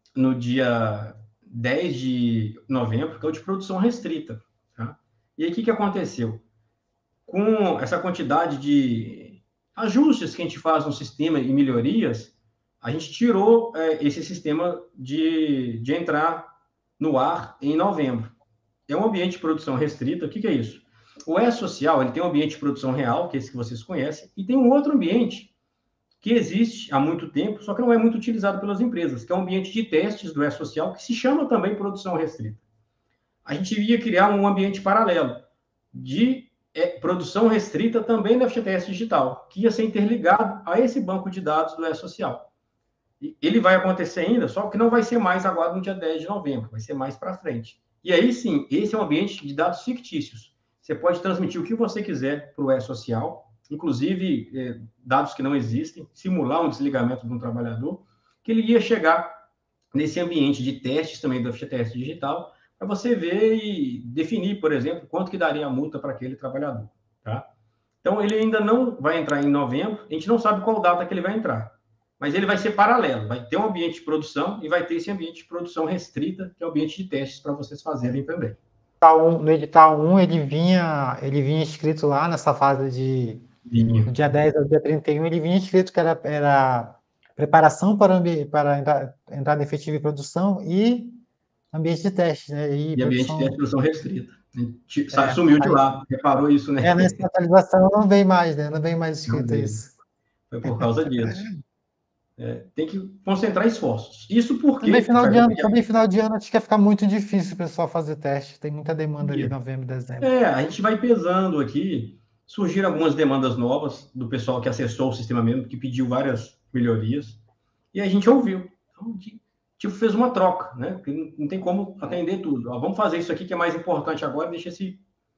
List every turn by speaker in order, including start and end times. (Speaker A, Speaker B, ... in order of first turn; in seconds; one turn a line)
Speaker A: 0.1-6.4
Speaker A: 7.2-16.5
Speaker A: 17.0-18.3
Speaker A: 18.9-25.5
Speaker A: 26.2-32.6
Speaker A: 33.4-42.5
Speaker A: 43.2-59.4
Speaker A: 59.9-67.5
Speaker A: 68.0-78.6
Speaker B: 79.0-83.5
Speaker A: 83.7-84.1
Speaker B: 84.0-91.2
Speaker B: 91.7-93.5
Speaker A: 92.9-97.2
Speaker B: 95.1-95.8
Speaker B: 96.8-99.9
Speaker A: 99.3-99.8
Speaker A: 100.5-101.5
Speaker B: 100.6-101.5
Speaker A: 102.4-105.7
Speaker B: 104.8-110.3
Speaker A: 109.2-109.5
Speaker A: 110.2-117.4
Speaker A: 117.9-125.0